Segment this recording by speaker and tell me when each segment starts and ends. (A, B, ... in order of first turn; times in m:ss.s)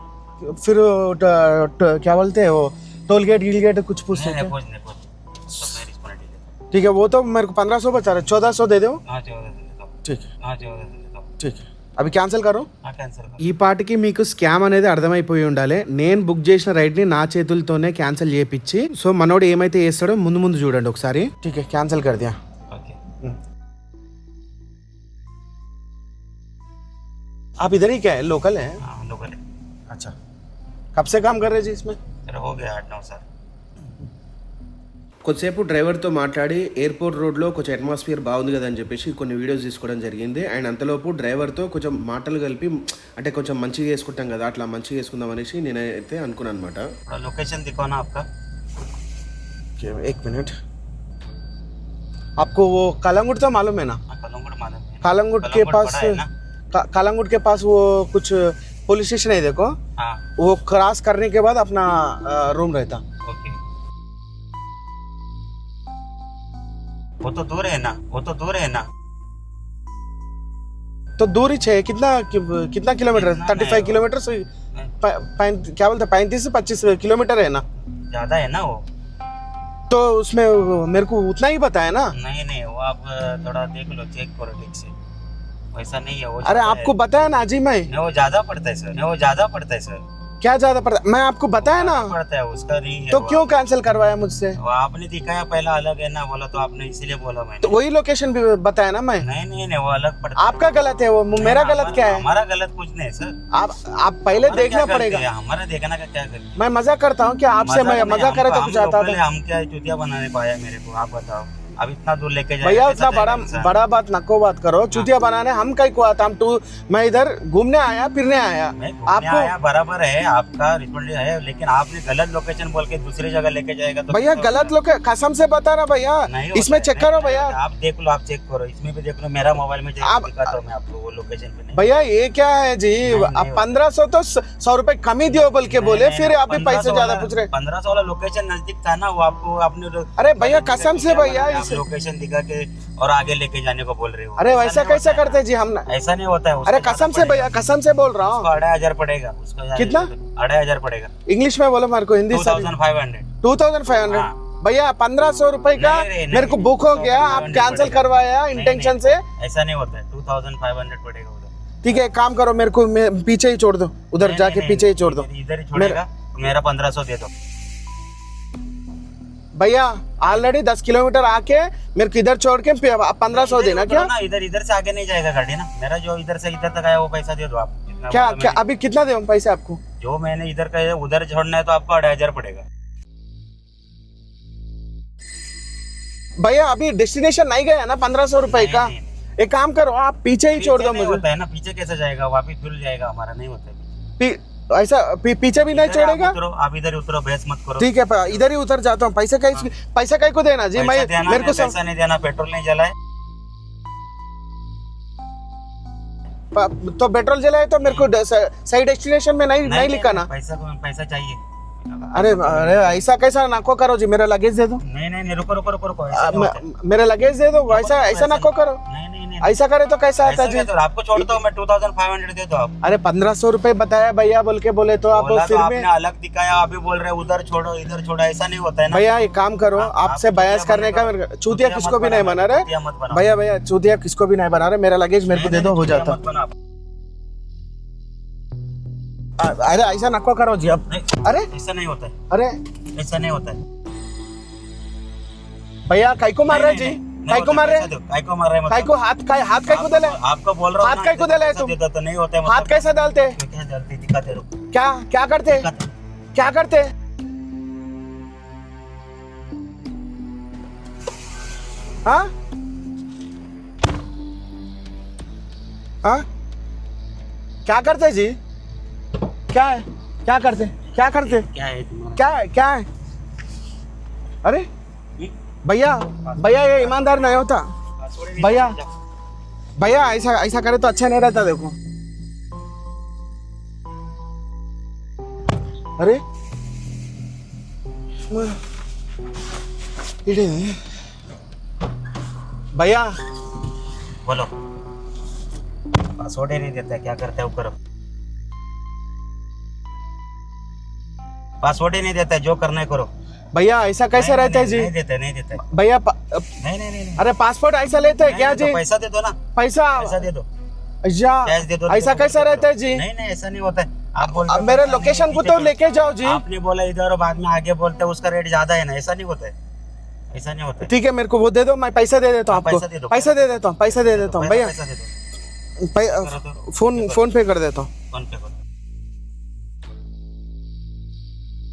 0:00.4-0:04.5 A
0:04.1-0:06.5 B
0:06.7-0:09.0 A
0:09.1-0:09.9 B
0:10.0-0:10.3 A
0:10.4-0:11.3 B
0:11.4-0:12.7 A
0:12.8-0:13.4 B
0:13.4-0:22.4 A
0:22.7-0:23.0 B
0:27.6-0:28.8 A
0:28.8-0:29.4 B
0:31.0-0:32.0 A
0:32.3-0:33.3 B
0:35.2-0:46.9 A
0:47.1-0:48.2 B
0:49.8-0:50.6 A
0:52.4-0:54.0 A
0:54.1-0:56.3 B
0:55.0-0:56.2 A
0:56.7-0:59.7 A
1:00.4-1:03.0 A
1:03.2-1:03.6 B
1:07.2-1:08.9 B
1:11.2-1:14.4 A
1:13.1-1:14.0 B
1:15.0-1:17.6 A
1:18.1-1:18.8 B
1:19.9-1:22.1 A
1:22.2-1:24.9 B
1:25.7-1:27.0 B
1:26.4-1:27.9 A
1:27.9-1:30.0 B
1:30.4-1:32.1 A
1:31.6-1:33.5 B
1:33.1-1:34.6 A
1:34.6-1:37.8 B
1:37.6-1:39.2 A
1:39.2-1:40.8 B
1:40.4-1:42.2 A
1:41.4-1:43.4 B
1:43.5-1:45.2 A
1:44.3-1:46.6 B
1:46.6-1:49.2 A
1:47.6-1:53.7 B
1:52.6-1:59.5 A
1:58.8-2:04.7 B
2:04.1-2:07.5 A
2:06.3-2:12.0 B
2:10.0-2:10.5 A
2:11.7-2:17.5 A
2:13.1-2:13.7 B
2:15.3-2:27.5 B
2:20.2-2:21.8 A
2:24.4-2:25.9 A
2:26.7-2:28.5 A
2:28.2-2:31.1 B
2:29.8-2:30.1 A
2:31.3-2:32.7 A
2:32.3-2:33.3 B
2:33.4-2:39.2 A
2:34.0-2:34.4 B
2:35.8-2:41.5 B
2:41.8-2:46.0 A
2:44.2-2:47.3 B
2:49.6-2:54.1 A
2:53.3-2:58.6 B
2:58.1-2:59.8 A
3:00.0-3:02.6 B
3:06.4-3:11.2 A
3:08.4-3:09.2 B
3:10.6-3:13.9 B
3:14.2-3:16.4 A
3:15.7-3:18.5 B
3:17.8-3:21.7 A
3:20.7-3:22.9 B
3:26.5-3:30.3 A
3:27.8-3:28.1 B
3:29.6-3:33.0 B
3:32.2-3:34.8 A
3:34.8-3:36.6 B
3:36.2-3:38.8 A
3:37.7-3:39.6 B
3:39.4-3:40.7 A
3:40.2-3:42.7 B
3:42.8-3:45.8 A
3:45.1-3:49.1 B
3:48.9-3:56.2 A
3:49.8-3:53.3 B
3:55.3-3:56.5 B
3:59.4-4:01.5 A
4:00.9-4:02.2 B
4:02.9-4:03.6 B
4:05.9-4:07.9 A
4:06.5-4:08.9 B
4:08.7-4:10.2 A
4:09.7-4:14.6 B
4:10.8-4:11.7 A
4:12.5-4:13.4 A
4:14.7-4:15.7 A
4:15.5-4:15.9 B
4:16.4-4:16.9 A
4:27.7-4:28.4 A
4:29.5-4:31.4 A
4:31.0-4:32.2 B
4:32.2-4:32.8 A
4:35.6-4:37.6 A
4:36.1-4:38.9 B
4:38.4-4:38.8 A
4:39.8-4:41.8 A
4:48.3-4:48.6 A
4:50.2-4:50.8 A
4:52.8-4:53.1 A
4:54.2-4:54.5 B
4:56.2-4:57.8 B
5:01.6-5:03.1 B
5:03.5-5:04.9 A
5:04.1-5:05.6 B
5:05.7-5:06.5 A
5:06.6-5:07.3 B
5:07.2-5:08.8 A
5:08.2-5:09.4 B
5:09.6-5:10.2 A
5:10.0-5:10.5 B
5:11.1-5:13.0 A
5:11.4-5:19.5 B
5:14.3-5:16.4 A
5:20.3-5:20.9 B
5:20.8-5:24.7 A
5:22.5-5:25.1 B
5:25.8-5:27.9 A
5:26.1-5:27.3 B
5:28.1-5:28.6 B